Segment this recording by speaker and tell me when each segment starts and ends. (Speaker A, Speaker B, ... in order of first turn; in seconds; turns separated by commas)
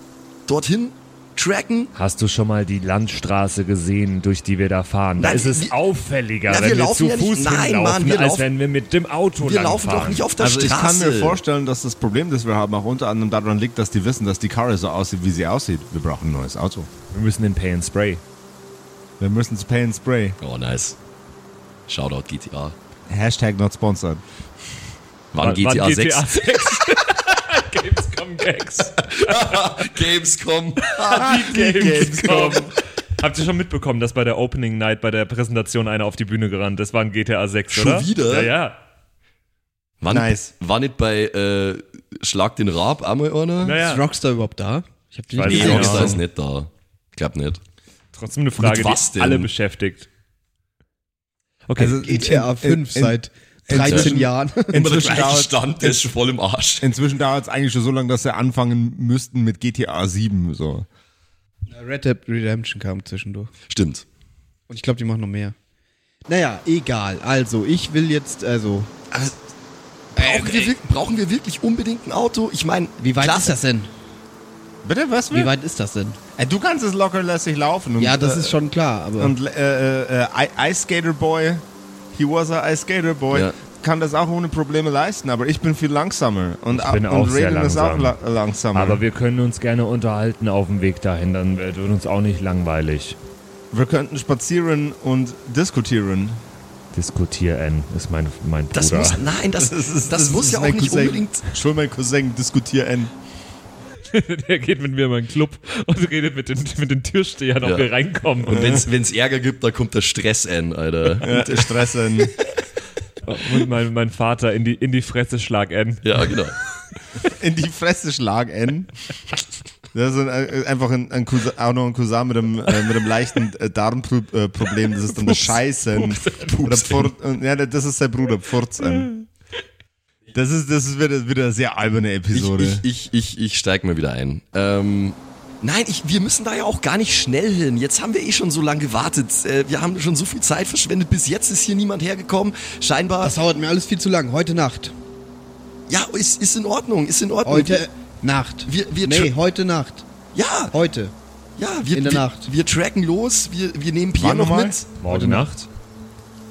Speaker A: 0.5-1.9, Speaker B: 1.9-10.2, Speaker A: 5.2-5.7, Speaker A: 6.5-8.5, Speaker A: 9.4-11.4, Speaker C: 10.4-16.9, Speaker B: 17.1-18.2, Speaker C: 19.2-20.4, Speaker A: 20.4-21.0, Speaker A: 21.9-22.8, Speaker C: 23.1-24.2, Speaker A: 25.3-26.8, Speaker B: 25.4-30.0, Speaker A: 29.0-32.6, Speaker B: 30.8-38.8, Speaker C: 31.1-32.6, Speaker A: 37.7-38.5, Speaker A: 40.0-43.8, Speaker C: 40.1-40.5, Speaker B: 43.6-44.0, Speaker D: 43.6-46.1, Speaker B: 45.3-46.2, Speaker A: 45.5-47.6, Speaker C: 45.6-46.2, Speaker B: 48.1-50.1, Speaker A: 48.6-49.5, Speaker B: 51.7-52.0, Speaker C: 51.8-56.0, Speaker D: 52.0-55.0, Speaker A: 53.8-54.2, Speaker A: 54.7-56.9, Speaker C: 56.8-60.9, Speaker D: 61.7-63.5, Speaker A: 63.7-64.0, Speaker D: 64.7-65.5, Speaker D: 66.3-68.9, Speaker A: 70.2-73.6, Speaker D: 70.2-70.8, Speaker D: 73.0-73.9, Speaker C: 74.8-75.5, Speaker D: 75.3-76.2, Speaker C: 76.4-78.6, Speaker D: 78.0-79.3, Speaker C: 79.2-89.0, Speaker B: 86.7-88.2, Speaker B: 88.7-93.2, Speaker C: 93.7-96.4, Speaker B: 96.9-99.2, Speaker A: 98.7-101.5, Speaker C: 99.6-103.1, Speaker B: 104.1-108.8, Speaker A: 107.6-107.9, Speaker A: 108.5-111.3, Speaker C: 111.2-112.3, Speaker B: 111.2-111.6, Speaker B: 113.2-116.4, Speaker A: 116.0-116.6, Speaker C: 117.2-118.9, Speaker C: 119.9-129.1, Speaker B: 125.1-126.6, Speaker A: 126.4-127.1, Speaker C: 130.3-132.8, Speaker A: 132.3-143.4, Speaker D: 143.2-144.9, Speaker A: 145.9-147.9, Speaker D: 147.4-150.1, Speaker A: 148.7-149.3, Speaker A: 150.3-150.8, Speaker D: 150.7-151.1, Speaker A: 151.6-154.9, Speaker D: 151.9-152.5, Speaker C: 154.2-154.8, Speaker B: 155.0-155.7, Speaker D: 155.1-155.5